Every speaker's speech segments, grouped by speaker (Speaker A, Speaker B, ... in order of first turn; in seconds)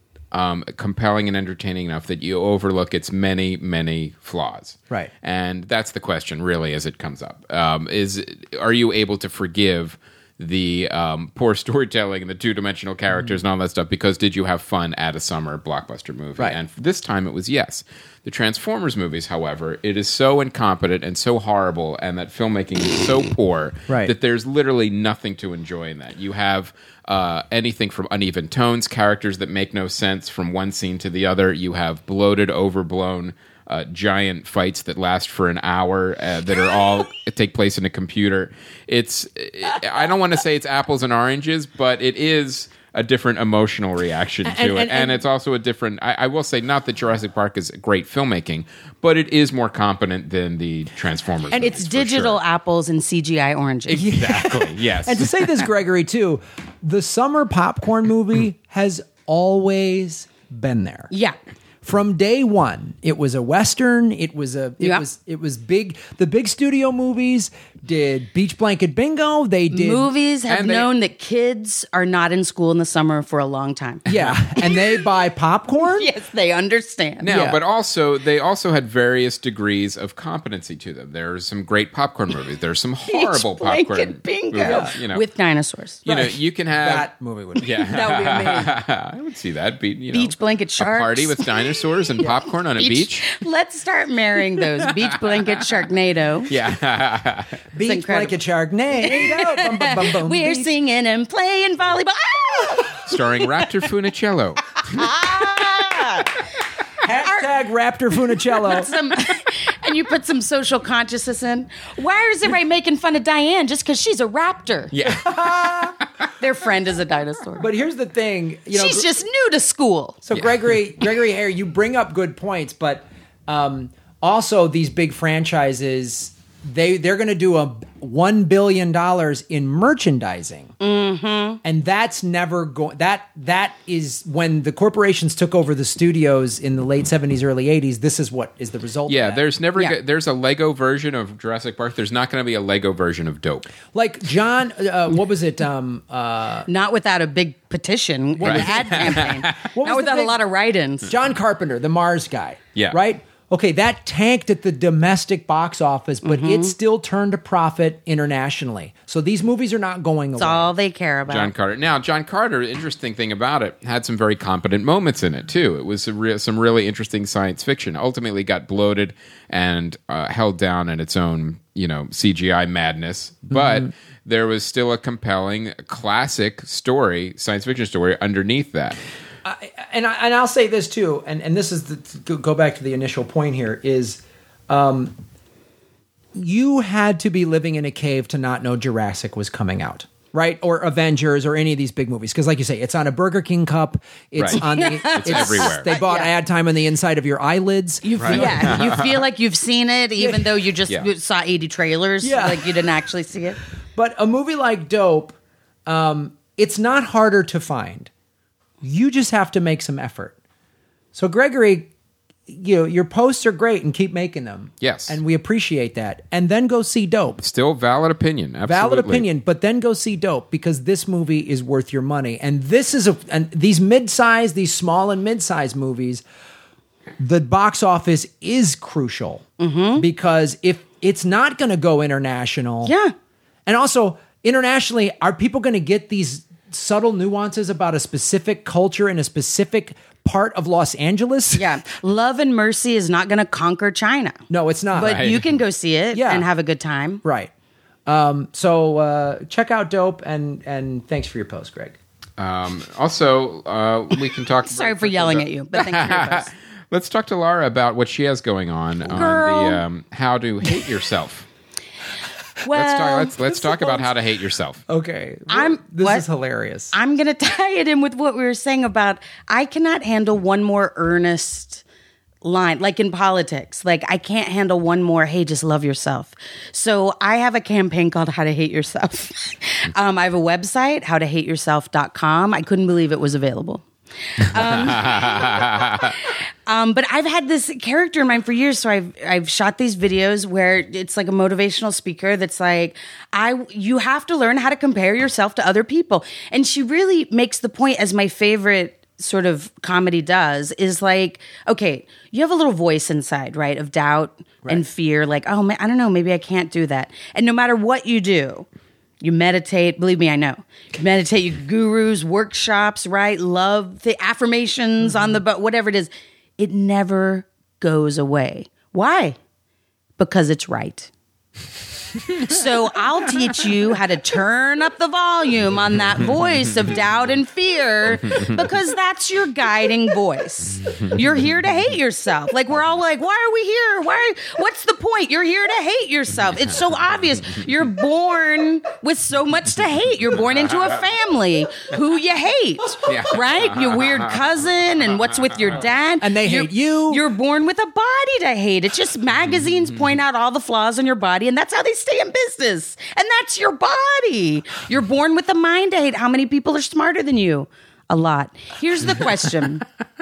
Speaker A: 0.3-52.4, 53.9-55.5, 70.5-70.9, 77.2-85.2, 86.0-93.4, 96.5-97.6, 103.0-105.1, 114.9-115.8, 120.3-120.6, 139.1-143.7, 148.4-149.7, 161.3-179.0, 194.4-195.9, 198.2-199.2, 214.8-215.2, 217.4-219.3, 245.0-245.5, 252.4-261.5, 262.7-264.8, 284.8-286.1, 343.1-344.4
Speaker B: 44.5-45.2, 53.9-61.1, 61.8-70.1, 74.1-76.1, 77.3-77.6, 84.6-84.9, 86.1-87.7, 97.7-100.7, 107.0-108.9, 115.1-116.0, 117.6-119.1, 120.2-130.8, 131.6-139.4, 143.9-146.7, 148.4-150.4, 151.0-160.7, 179.4-185.2, 186.3-198.9, 200.2-200.7, 202.2-203.1, 203.9-208.1, 208.8-210.4, 211.1-211.9, 212.5-217.4, 218.7-226.2, 227.2-229.4, 230.0-232.9, 233.7-241.7, 244.5-245.3, 246.1-246.5, 247.2-247.5, 248.1-252.0, 263.5-264.1, 264.9-266.9, 346.2-347.2
Speaker C: 51.5-54.0, 61.1-61.4, 64.8-65.0, 69.7-74.0, 74.6-75.0, 75.8-77.3, 83.1-86.0, 87.8-88.8, 90.1-96.5, 97.8-98.3, 99.0-103.2, 104.9-106.4, 108.5-115.0, 116.4-117.7, 118.7-120.2, 130.8-131.6, 146.7-151.1, 156.2-156.7, 160.4-161.5, 194.5-196.3, 198.0-203.6, 229.6-230.1, 232.8-233.1, 241.5-244.4, 244.9-247.2, 254.6-256.5, 259.1-259.8, 262.6-263.4, 265.5-266.2, 266.9-271.8, 272.4-283.9, 284.4-308.7, 309.2-319.4, 320.2-321.1, 322.3-359.9